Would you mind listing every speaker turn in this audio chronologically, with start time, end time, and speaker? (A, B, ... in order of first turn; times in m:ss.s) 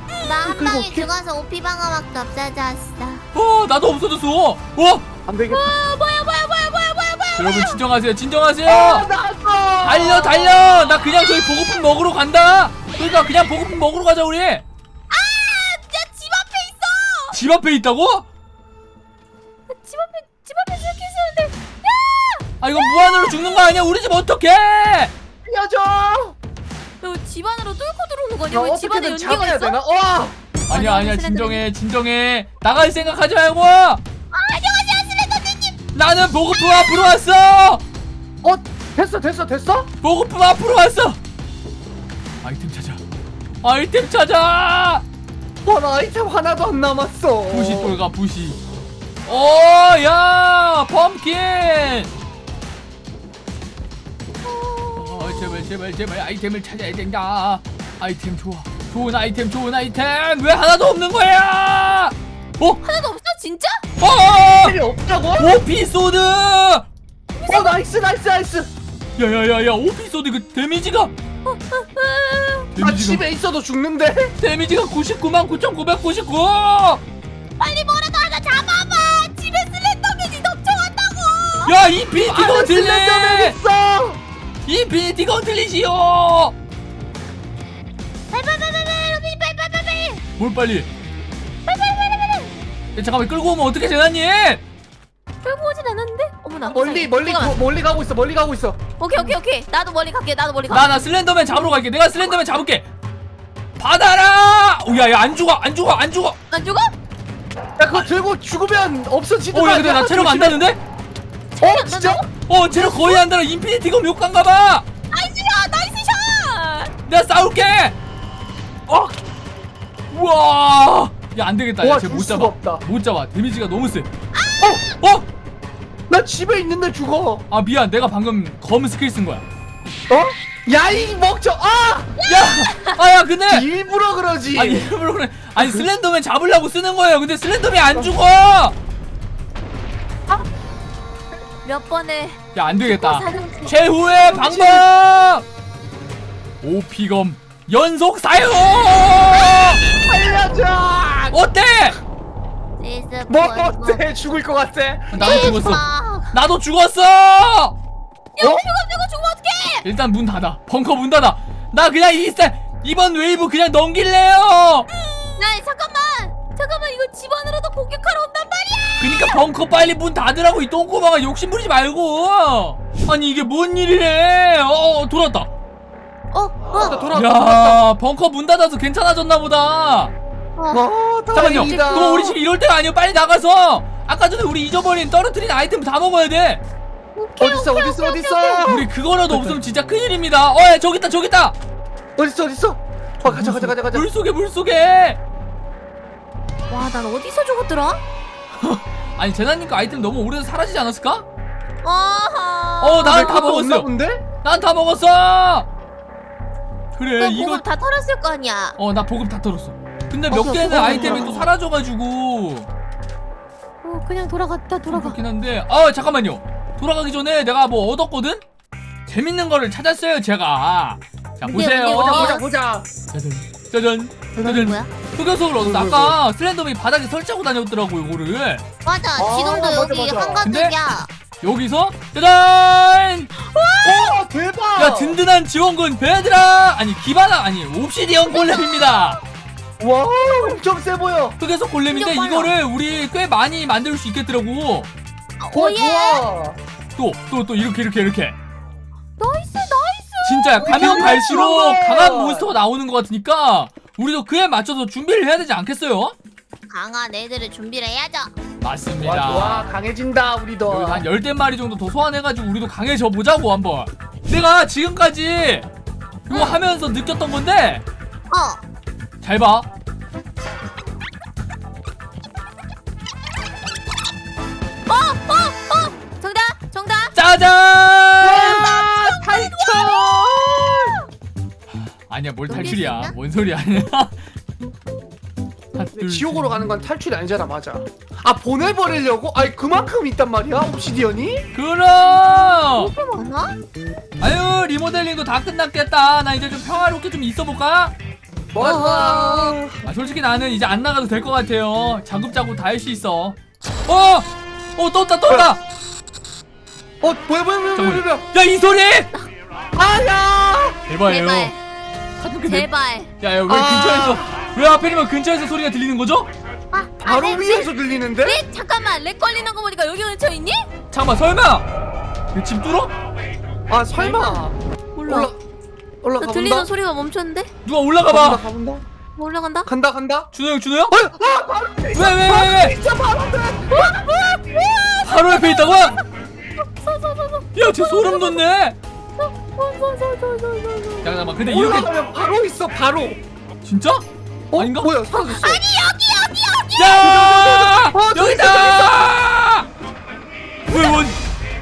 0:00.2-0:03.2 A
0:00.4-0:01.1 B
0:03.3-0:05.0 C
0:05.3-0:05.7 B
0:05.5-0:07.8 A
0:07.4-0:09.1 C
0:08.6-0:10.5 B
0:09.8-0:14.6 C
0:10.3-0:11.6 A
0:15.1-0:17.4 A
0:17.3-0:18.3 C
0:19.7-0:23.7 A
0:22.6-0:25.1 C
0:25.4-0:26.3 B
0:27.0-0:29.8 A
0:28.5-0:30.4 B
0:30.7-0:34.0 C
0:30.7-0:31.6 A
0:34.3-0:35.8 A
0:35.9-0:37.8 C
0:36.5-0:37.1 A
0:38.4-0:39.9 B
0:40.0-0:41.2 C
0:42.4-0:43.0 C
0:43.6-0:45.0 C
0:45.6-0:48.0 B
0:47.5-0:48.6 C
0:49.2-0:52.1 C
0:54.4-0:55.2 A
0:55.0-1:02.8 C
1:02.8-1:03.8 A
1:04.0-1:04.7 C
1:04.6-1:05.6 B
1:05.4-1:06.9 C
1:07.3-1:07.8 A
1:07.5-1:08.7 B
1:09.2-1:11.1 C
1:11.4-1:12.7 A
1:12.8-1:13.2 C
1:12.8-1:14.3 B
1:14.4-1:17.0 C
1:17.6-1:21.8 A
1:21.6-1:23.6 C
1:22.1-1:24.2 B
1:24.6-1:26.5 C
1:28.3-1:30.2 A
1:30.4-1:30.9 C
1:31.7-1:32.5 A
1:32.9-1:34.6 C
1:35.4-1:37.6 A
1:36.6-1:38.8 B
1:39.0-1:40.9 A
1:40.7-1:42.8 C
1:43.8-1:46.4 C
1:46.5-1:46.9 A
1:47.8-1:50.6 B
1:49.5-1:50.8 C
1:51.5-1:53.2 A
1:51.6-1:52.2 B
1:52.5-1:54.8 C
1:55.1-1:56.9 A
1:57.0-1:58.0 C
1:58.9-1:59.2 B
2:00.1-2:04.1 C
2:01.8-2:02.8 B
2:04.3-2:04.9 A
2:05.0-2:05.2 C
2:06.1-2:07.4 B
2:07.5-2:09.4 C
2:10.1-2:12.1 B
2:12.2-2:13.0 A
2:12.2-2:13.6 C
2:13.5-2:14.9 B
2:14.5-2:18.8 C
2:15.6-2:15.8 B
2:21.6-2:23.8 A
2:22.5-2:25.4 C
2:24.3-2:24.8 B
2:26.6-2:29.9 C
2:30.0-2:31.4 B
2:31.3-2:32.0 C
2:32.8-2:34.0 A
2:33.3-2:35.7 B
2:35.1-2:37.7 C
2:35.2-2:36.3 A
2:38.4-2:39.8 A
2:38.4-2:38.6 B
2:39.8-2:44.9 C
2:45.2-2:49.4 A
2:49.0-2:55.5 C
2:56.3-2:57.1 A
2:56.7-2:57.8 B
2:57.1-3:00.1 C
3:00.6-3:00.8 A
3:00.7-3:02.3 B
3:01.3-3:06.6 C
3:01.4-3:02.3 A
3:07.2-3:08.6 A
3:07.4-3:09.6 B
3:08.7-3:11.6 C
3:12.2-3:14.0 B
3:13.2-3:15.2 C
3:16.7-3:18.0 A
3:18.6-3:21.2 C
3:21.8-3:23.5 A
3:22.8-3:23.9 C
3:23.0-3:24.2 B
3:24.4-3:25.7 C
3:27.0-3:27.6 C
3:27.2-3:28.8 A
3:28.8-3:32.7 C
3:30.3-3:31.4 A
3:30.6-3:31.5 B
3:33.8-3:35.2 A
3:34.9-3:38.4 C
3:39.1-3:42.4 C
3:41.4-3:42.4 A
3:42.1-3:42.9 B
3:43.1-3:48.6 C
3:44.4-3:44.7 B
3:44.5-3:44.9 A
3:45.6-3:46.2 B
3:48.8-3:51.1 A
3:49.2-3:50.4 B
3:50.4-3:50.8 C
3:51.4-3:53.3 C
3:53.4-3:54.2 A
3:53.8-3:55.2 B
3:54.8-3:59.2 C
3:58.3-3:59.0 A
3:59.8-4:01.4 B
4:00.1-4:00.6 A
4:01.4-4:04.9 C
4:01.9-4:02.5 A
4:05.4-4:06.3 A
4:05.5-4:06.6 B
4:07.0-4:08.4 C
4:09.2-4:11.3 A
4:10.2-4:16.1 C
4:10.6-4:12.5 B
4:16.7-4:18.3 A
4:18.6-4:19.6 C
4:19.0-4:21.0 B
4:20.7-4:25.6 C
4:26.2-4:27.8 C
4:26.3-4:26.6 A
4:28.3-4:28.6 A
4:29.2-4:29.7 C
4:34.9-4:37.1 A
4:37.1-4:38.6 C
4:38.2-4:40.9 B
4:38.2-4:40.4 A
4:42.1-4:44.2 C
4:42.5-4:43.1 A
4:45.7-4:46.6 C
4:46.0-4:51.5 B
4:51.5-4:52.9 C
4:52.8-4:53.5 A
4:54.2-4:57.9 C
4:58.5-4:59.8 B
4:58.6-4:59.6 A
4:59.8-5:05.6 C
5:07.0-5:08.2 B
5:07.8-5:09.1 C
5:09.7-5:10.8 B
5:10.9-5:11.5 C
5:11.0-5:11.6 A
5:12.2-5:12.7 C
5:12.4-5:13.1 A
5:13.2-5:16.3 C
5:13.5-5:14.2 B
5:16.7-5:17.7 A
5:17.0-5:18.4 B
5:18.2-5:20.7 A
5:20.9-5:21.6 C
5:22.3-5:22.9 C
5:23.7-5:25.4 B
5:23.9-5:24.4 A
5:24.9-5:25.3 A
5:26.0-5:26.7 B
5:26.2-5:27.5 A
5:27.6-5:28.4 C
5:28.1-5:28.8 B
5:29.2-5:29.7 A
5:29.6-5:30.3 B
5:30.3-5:31.0 C
5:30.9-5:34.1 B
5:31.9-5:32.8 C
5:33.7-5:36.0 A
5:35.0-5:36.0 C
5:36.7-5:38.4 A
5:37.5-5:38.8 C
5:39.2-5:41.1 A
5:41.0-5:41.9 C
5:41.4-5:43.2 B
5:43.6-5:44.9 C
5:44.5-5:45.6 B
5:45.3-5:47.1 A
5:46.8-5:49.7 C
5:47.0-5:49.1 B
5:50.7-5:51.2 C
5:50.7-5:51.0 A